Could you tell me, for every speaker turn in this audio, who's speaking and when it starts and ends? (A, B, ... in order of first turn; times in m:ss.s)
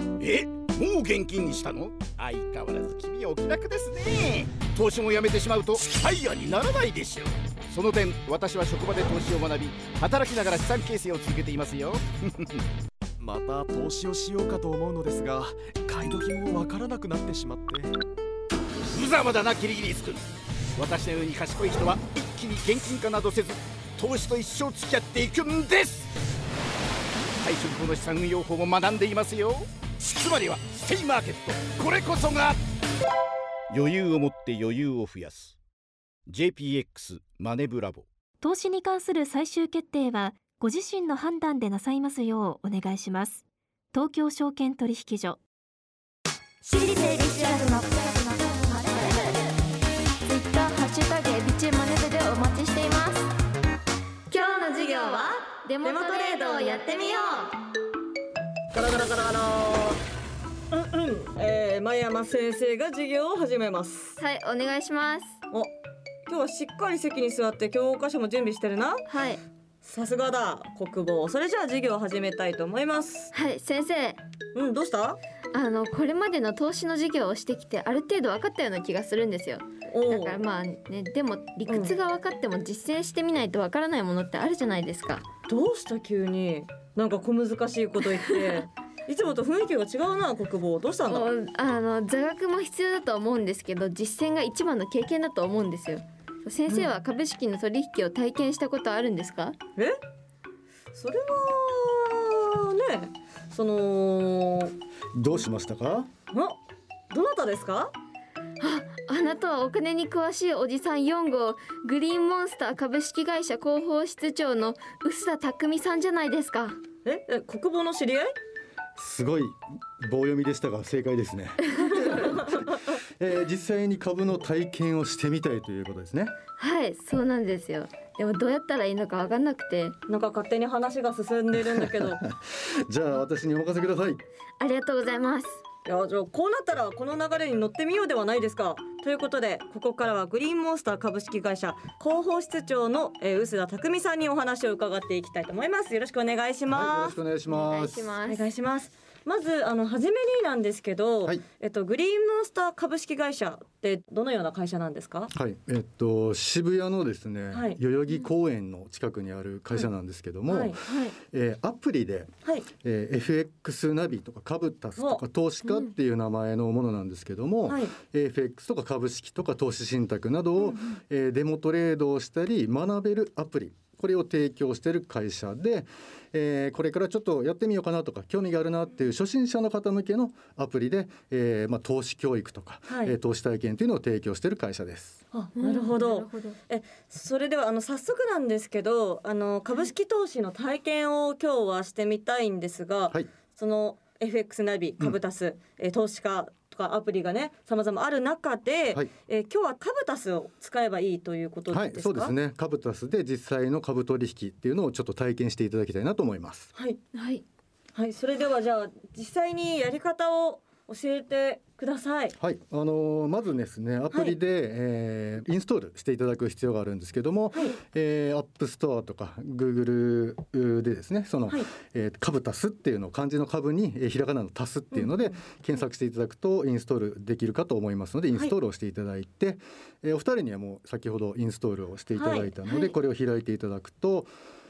0:00.2-0:12.6 A
0:13.2-0:17.9 B
0:18.9-0:20.2 A
0:20.8-0:26.1 A
0:27.3-0:32.6 A
0:33.7-0:35.6 A
0:36.3-0:38.0 A
0:38.4-0:43.4 C
0:43.9-0:45.4 C
0:46.6-0:49.5 D
0:50.3-0:53.3 E
0:54.3-0:57.3 E
0:54.3-0:57.5 D
0:58.7-1:00.0 D
1:00.7-1:04.2 D
1:04.2-1:05.4 E
1:06.3-1:09.1 D
1:09.1-1:09.4 E
1:09.8-1:13.3 D
1:13.3-1:14.2 E
1:14.5-1:15.2 D
1:15.5-1:25.3 E
1:19.9-1:20.4 D
1:21.7-1:21.9 D
1:25.5-1:31.3 D
1:28.3-1:28.6 E
1:31.1-1:39.6 E
1:40.9-1:44.7 D
1:45.2-1:46.1 F
1:46.3-1:46.6 D
1:47.1-1:47.9 D
1:48.6-1:56.8 E
1:57.0-1:58.4 D
1:59.0-2:06.3 F
2:01.8-2:02.6 D
2:06.6-2:10.0 E
2:10.1-2:12.2 D
2:11.7-2:14.2 F
2:14.6-2:15.6 E
2:15.9-2:27.2 D
2:26.7-2:28.1 F
2:27.5-2:28.5 E
2:28.2-2:35.3 D
2:35.3-2:42.3 F
2:37.5-2:37.8 D
2:40.5-2:40.8 D
2:40.8-2:41.2 E
2:42.8-3:05.2 F
2:45.0-2:45.2 D
2:47.7-2:47.9 D
2:50.6-2:51.0 D
3:02.9-3:03.2 D
3:05.3-3:22.4 D
3:05.6-3:06.6 E
3:21.7-3:26.7 F
3:27.2-3:27.4 E
3:28.0-3:32.4 D
3:32.4-3:54.3 F
3:34.1-3:34.4 D
3:37.5-3:37.8 D
3:44.9-3:45.8 D
3:52.2-3:52.5 D
3:52.7-3:53.0 E